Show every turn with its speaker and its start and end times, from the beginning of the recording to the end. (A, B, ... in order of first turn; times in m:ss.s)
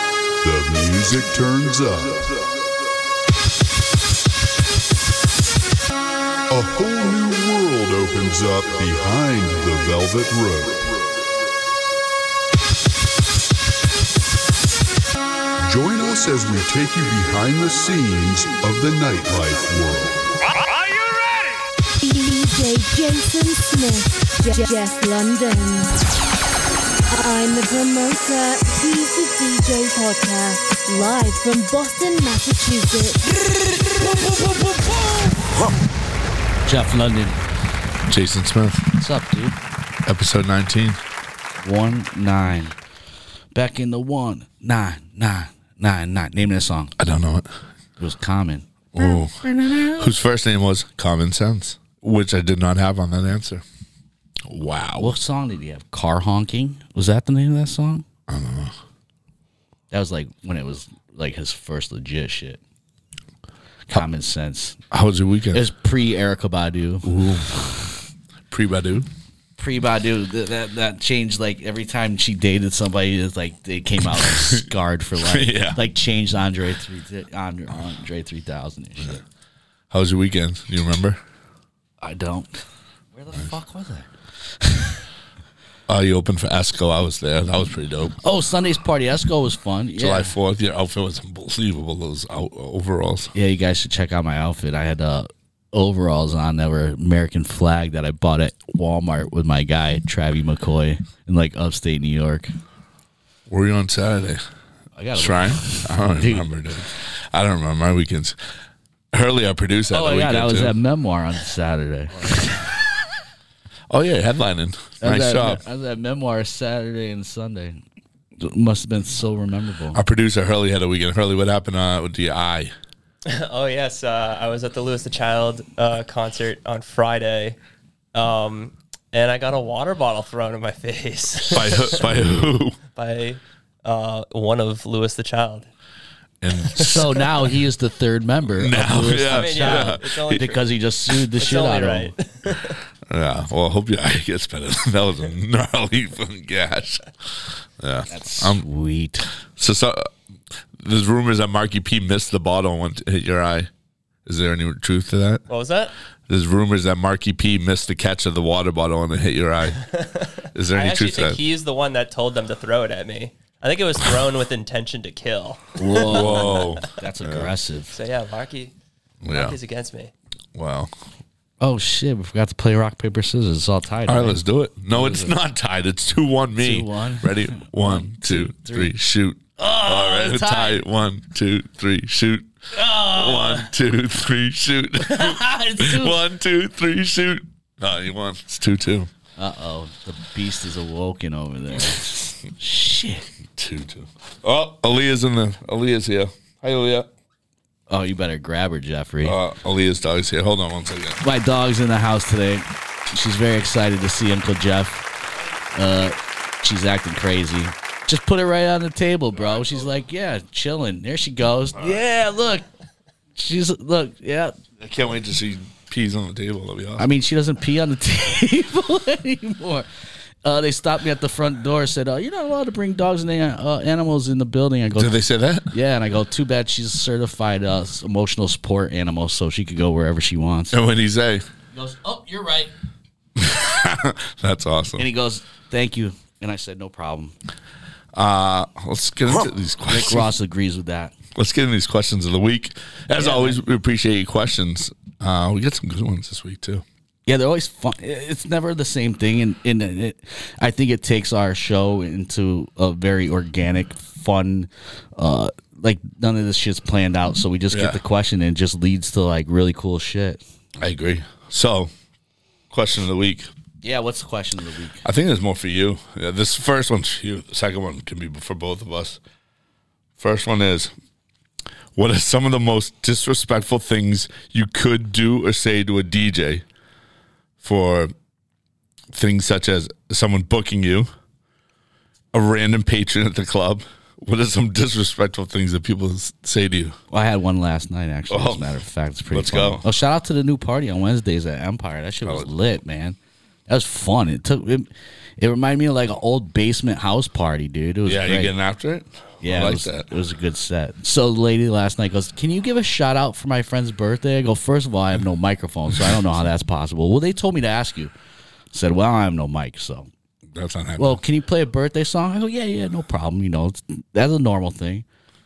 0:00.4-0:02.4 A
0:06.5-0:11.0 A
0:15.6-0:20.4 A
0:22.0-0:26.0 B
0:27.1-0:33.3 B
0:33.4-0:35.7 C
0:36.6-0:37.4 C
0:38.1-0:38.9 D
0:39.0-0:39.6 C
0:40.0-0:41.0 D
0:41.6-0:42.8 C
0:43.5-0:46.9 C
0:47.0-0:47.5 D
0:48.0-0:50.1 C
0:48.9-0:53.6 D
0:54.5-0:55.1 D
0:55.0-0:58.0 C
0:58.3-0:58.7 D
0:59.9-1:02.6 C
1:03.9-1:04.8 C
1:04.9-1:05.7 D
1:05.5-1:07.1 C
1:07.0-1:07.6 D
1:08.5-1:09.1 D
1:09.6-1:19.2 C
1:14.0-1:14.7 D
1:15.2-1:15.8 D
1:19.9-1:21.2 D
1:22.0-1:22.6 C
1:23.2-1:24.1 C
1:24.6-1:25.0 C
1:25.9-1:28.2 D
1:28.2-1:30.4 C
1:30.0-1:33.3 D
1:33.4-1:42.5 C
1:43.5-1:44.4 D
1:45.0-1:46.5 C
1:45.2-1:48.4 D
1:49.1-1:50.8 D
1:49.9-1:52.6 C
1:53.9-1:55.6 D
1:55.0-1:57.8 C
1:58.4-2:00.0 C
1:59.9-2:02.7 D
2:03.3-2:07.6 E
2:08.1-2:15.7 E
2:11.5-2:12.8 D
2:16.4-2:17.2 D
2:16.8-2:22.1 C
2:18.6-2:20.4 D
2:19.3-2:22.8 E
2:23.1-2:27.0 D
2:27.8-2:28.6 D
2:28.1-2:29.3 C
2:29.6-2:30.1 D
2:30.8-2:33.7 D
2:34.3-2:35.4 D
2:35.5-2:35.9 E
2:36.3-2:39.8 D
2:39.8-2:46.9 E
2:40.5-2:41.4 D
2:45.8-2:48.0 C
2:46.0-2:47.5 D
2:47.9-2:48.7 E
2:49.2-2:49.6 D
2:49.3-2:50.1 E
2:50.6-2:50.9 D
2:51.6-2:54.4 C
2:54.1-3:09.1 D
2:54.9-2:55.3 C
2:56.6-2:58.9 C
2:59.6-3:00.8 C
3:02.7-3:03.7 C
3:05.0-3:06.2 C
3:09.4-3:13.3 C
3:13.5-3:17.1 D
3:17.9-3:19.4 C
3:19.2-3:21.2 D
3:21.2-3:25.0 C
3:25.7-3:32.6 C
3:33.4-3:34.6 C
3:34.8-3:37.1 D
3:37.0-3:39.9 C
3:40.4-3:45.2 C
3:45.0-3:45.7 D
3:45.7-3:50.8 C
3:50.7-3:51.4 D
3:51.7-3:52.7 C
3:53.4-3:55.1 D
3:55.0-3:57.4 C
3:58.2-4:00.3 D
3:59.9-4:01.1 C
4:01.4-4:06.8 D
4:03.2-4:03.6 C
4:07.3-4:20.4 C
4:17.7-4:18.0 D
4:20.8-4:21.9 D
4:22.7-4:23.5 D
4:23.8-4:25.0 C
4:25.0-4:29.2 D
4:30.2-4:30.9 D
4:32.0-4:36.6 D
4:37.6-4:38.1 D
4:39.1-4:41.1 D
4:42.3-4:47.0 D
4:47.1-4:58.5 C
4:48.3-4:48.8 D
4:49.3-4:49.8 D
4:52.2-4:52.5 D
4:58.0-5:00.1 D
4:59.4-5:08.1 C
5:08.7-5:10.1 C
5:10.5-5:11.2 D
5:11.0-5:15.0 C